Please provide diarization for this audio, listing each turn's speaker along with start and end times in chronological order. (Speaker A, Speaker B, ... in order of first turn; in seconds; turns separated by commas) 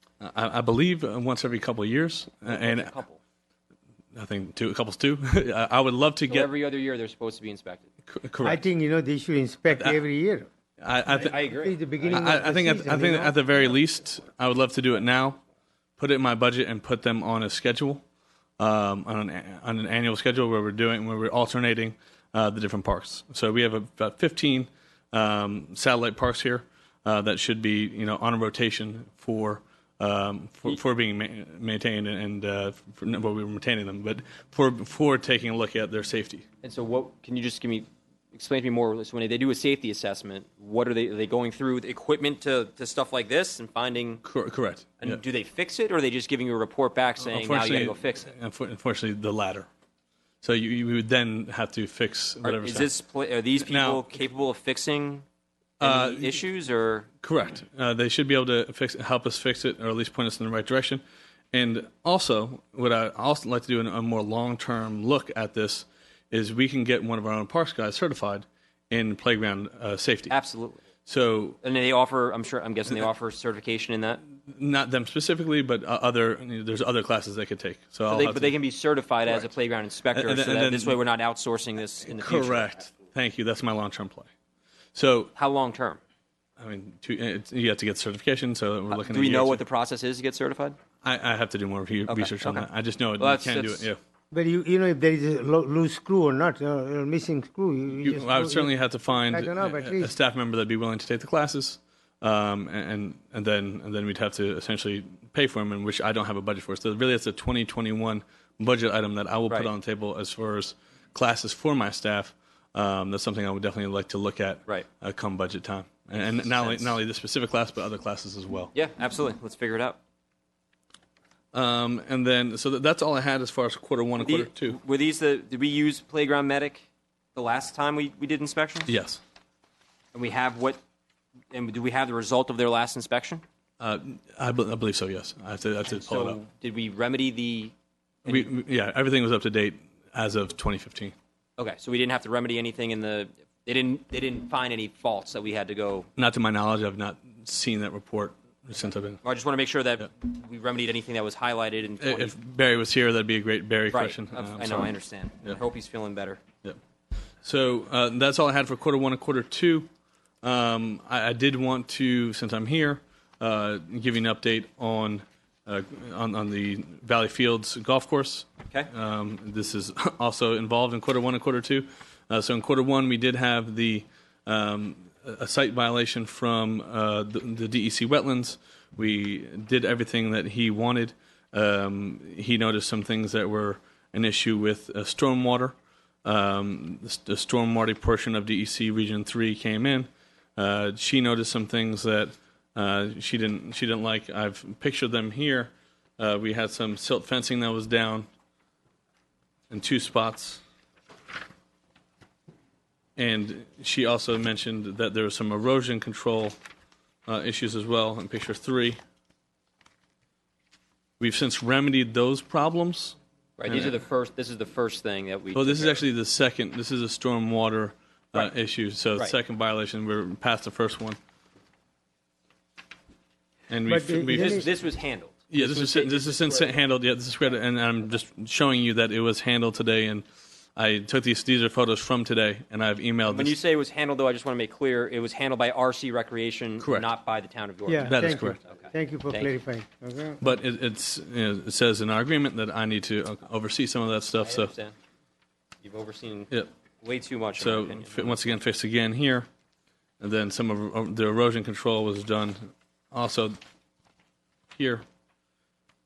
Speaker A: 0.2-3.0, Speaker B: 2.5-3.2, Speaker A: 4.1-6.5, Speaker B: 6.3-7.9, Speaker A: 8.1-8.6, Speaker C: 8.4-10.5, Speaker A: 9.7-10.0, Speaker A: 10.8-11.4, Speaker B: 11.1-12.3, Speaker C: 11.6-13.4, Speaker A: 12.1-15.4, Speaker A: 16.0-18.0, Speaker A: 18.6-36.5, Speaker B: 36.6-44.2, Speaker A: 44.2-45.2, Speaker B: 45.0-48.3, Speaker A: 47.2-49.7, Speaker A: 50.4-52.9, Speaker B: 52.4-55.2, Speaker A: 53.6-54.0, Speaker B: 55.8-57.1, Speaker A: 55.8-56.4, Speaker A: 57.2-70.4, Speaker B: 70.3-70.8, Speaker A: 71.0-71.6, Speaker B: 71.6-74.2, Speaker A: 74.5-78.6, Speaker B: 78.1-82.9, Speaker A: 79.3-79.5, Speaker A: 80.1-81.0, Speaker A: 82.1-84.3, Speaker A: 85.0-85.3, Speaker B: 85.4-86.0, Speaker A: 86.6-89.6, Speaker B: 88.9-90.8, Speaker A: 91.0-94.0, Speaker B: 92.1-92.7, Speaker B: 93.2-93.9, Speaker C: 94.3-98.7, Speaker A: 98.0-118.7, Speaker C: 99.3-100.2, Speaker B: 116.2-117.0, Speaker B: 118.7-120.0, Speaker A: 121.5-124.8, Speaker B: 124.2-128.9, Speaker A: 128.9-129.2, Speaker B: 130.1-130.8, Speaker B: 131.5-133.4, Speaker A: 133.8-136.4, Speaker B: 135.9-137.7, Speaker A: 138.3-141.2, Speaker B: 141.6-146.1, Speaker A: 146.2-149.2, Speaker B: 149.2-152.3, Speaker A: 152.0-154.9, Speaker B: 153.9-156.4, Speaker A: 157.4-159.9, Speaker A: 160.4-198.3, Speaker A: 199.7-200.6, Speaker A: 203.2-206.6, Speaker A: 207.3-209.0, Speaker A: 211.2-214.0, Speaker B: 213.6-216.0, Speaker A: 215.6-221.2, Speaker A: 223.7-224.7, Speaker C: 223.9-224.7, Speaker B: 224.3-226.8, Speaker A: 225.5-233.6, Speaker B: 233.3-239.5, Speaker A: 236.8-237.1, Speaker C: 237.9-240.5, Speaker A: 238.0-238.6, Speaker A: 240.4-244.7, Speaker B: 244.4-244.9, Speaker B: 245.8-246.5, Speaker B: 247.0-248.5, Speaker A: 247.6-249.5, Speaker A: 250.2-253.6, Speaker A: 254.8-255.1